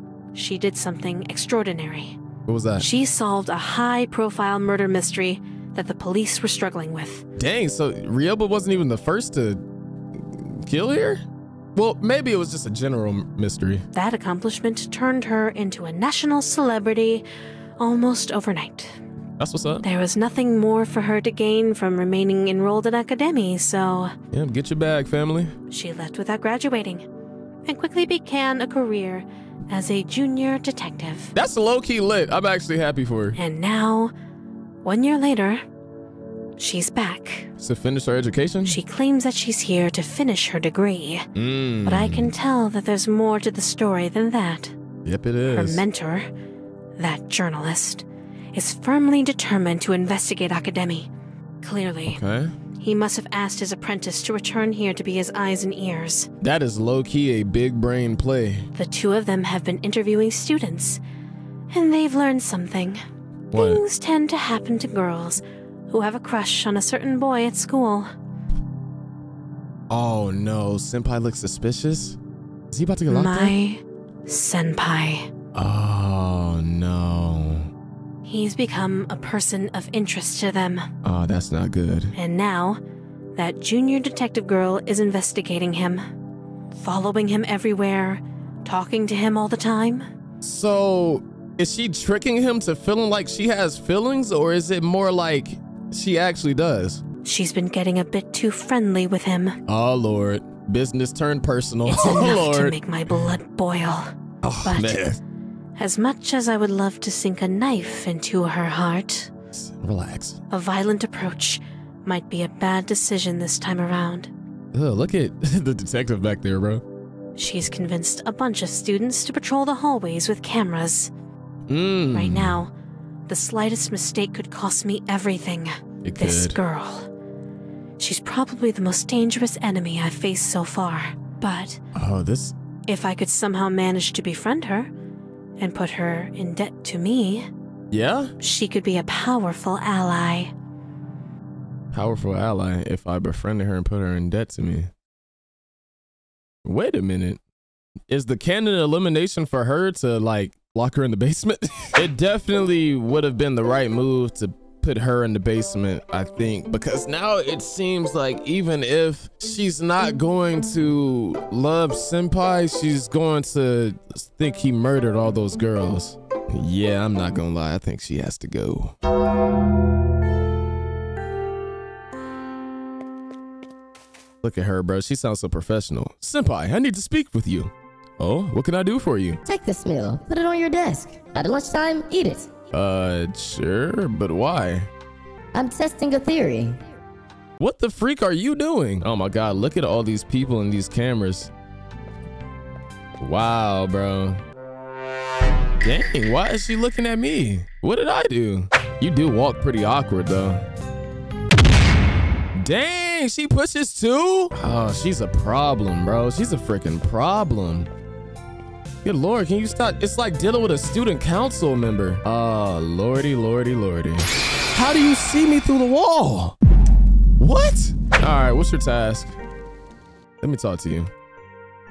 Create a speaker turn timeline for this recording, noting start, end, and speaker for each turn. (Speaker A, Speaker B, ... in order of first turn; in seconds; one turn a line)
Speaker A: 0.3-2.2
Speaker B: 2.5-2.9
Speaker A: 2.8-7.2
Speaker B: 7.4-9.6
Speaker B: 10.2-11.2
Speaker B: 11.8-13.8
Speaker A: 13.9-17.2
Speaker A: 17.8-18.9
Speaker B: 19.4-19.8
Speaker A: 19.8-24.1
Speaker B: 24.3-25.5
Speaker A: 25.7-27.0
Speaker A: 27.7-31.3
Speaker B: 31.4-33.4
Speaker A: 33.4-34.1
Speaker A: 34.8-35.6
Speaker A: 36.6-37.5
Speaker B: 37.6-38.8
Speaker A: 38.7-41.3
Speaker B: 41.4-42.3
Speaker A: 41.9-44.8
Speaker B: 45.0-45.8
Speaker A: 45.5-46.3
Speaker A: 47.0-51.1
Speaker A: 51.6-52.2
Speaker B: 52.1-52.5
Speaker A: 52.8-56.3
Speaker B: 56.4-58.7
Speaker A: 58.8-61.0
Speaker A: 61.7-63.0
Speaker A: 63.5-68.1
Speaker B: 63.5-63.8
Speaker B: 69.9-72.2
Speaker B: 72.7-73.6
Speaker A: 73.1-75.3
Speaker B: 75.5-77.7
Speaker A: 78.2-80.9
Speaker B: 81.0-82.1
Speaker A: 82.2-82.8
Speaker A: 83.4-86.0
Speaker A: 86.8-90.1
Speaker B: 90.4-97.0
Speaker A: 97.2-99.6
Speaker B: 99.7-102.8
Speaker A: 101.9-104.1
Speaker B: 104.4-105.2
Speaker A: 104.6-105.1
Speaker A: 105.8-109.3
Speaker B: 109.5-110.4
Speaker A: 110.5-114.3
Speaker B: 114.7-116.8
Speaker A: 117.4-121.1
Speaker B: 121.7-122.6
Speaker A: 122.1-122.7
Speaker A: 123.3-127.1
Speaker B: 126.0-126.6
Speaker A: 128.0-131.8
Speaker B: 131.9-132.6
Speaker A: 132.9-134.9
Speaker A: 135.6-137.5
Speaker B: 137.9-138.3
Speaker A: 138.4-140.5
Speaker B: 141.9-144.9
Speaker B: 146.6-147.4
Speaker B: 148.1-168.9
Speaker B: 174.4-179.4
Speaker C: 179.4-182.5
Speaker B: 182.7-184.9
Speaker C: 185.5-186.8
Speaker B: 187.6-191.5
Speaker B: 193.2-194.4
Speaker B: 195.8-200.7
Speaker B: 202.6-207.9
Speaker B: 209.0-216.6
Speaker B: 217.4-219.3
Speaker B: 220.4-221.1